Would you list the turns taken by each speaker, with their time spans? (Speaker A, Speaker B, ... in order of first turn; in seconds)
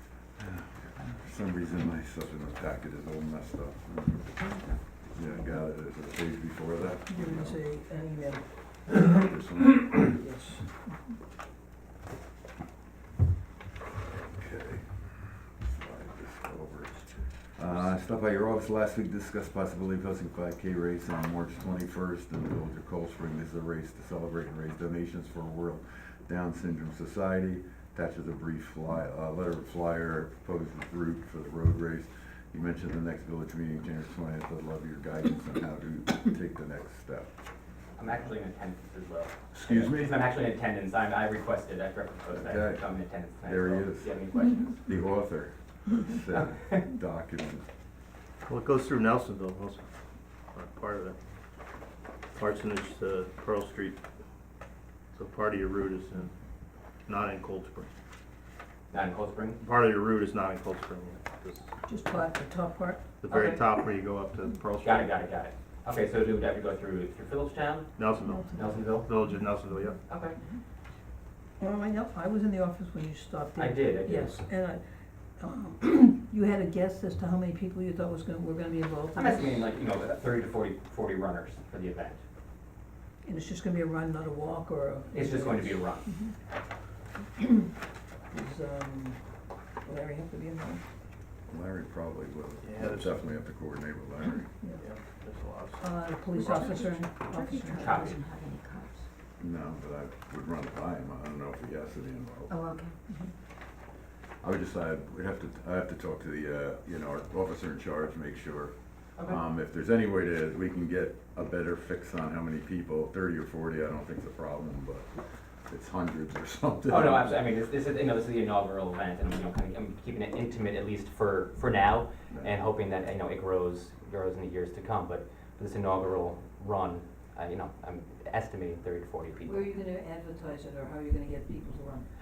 Speaker A: 0.4-4.3, 5.1-7.6, 9.1-10.2, 14.3-37.3, 39.5-40.2, 42.3-42.8, 43.4-44.1, 44.9-47.7, 91.5-94.5, 99.4-102.5, 104.4-115.1, 115.7-117.4
Speaker B: 7.1-10.8, 61.9-63.1, 68.3-68.8, 71.6-74.8, 75.4-79.7, 83.2-86.3, 87.4-87.7, 88.3-89.2, 89.8-90.8, 95.8-98.2, 129.4-132.1
Speaker C: 38.0-44.8, 46.3-46.8, 58.9-59.6, 63.3-63.6, 64.8-67.9, 68.5-69.1, 70.1-70.4, 73.6-74.4, 79.1-82.2, 85.1-86.1, 97.8-98.2, 116.9-129.7
Speaker D: 48.5-49.9, 50.5-51.2, 52.4-54.0, 55.1-56.3, 57.1-57.9, 59.6-61.7, 63.2-65.1, 68.0-70.0, 92.6-93.2, 94.8-96.8
Speaker E: 96.4-99.1, 102.5-103.0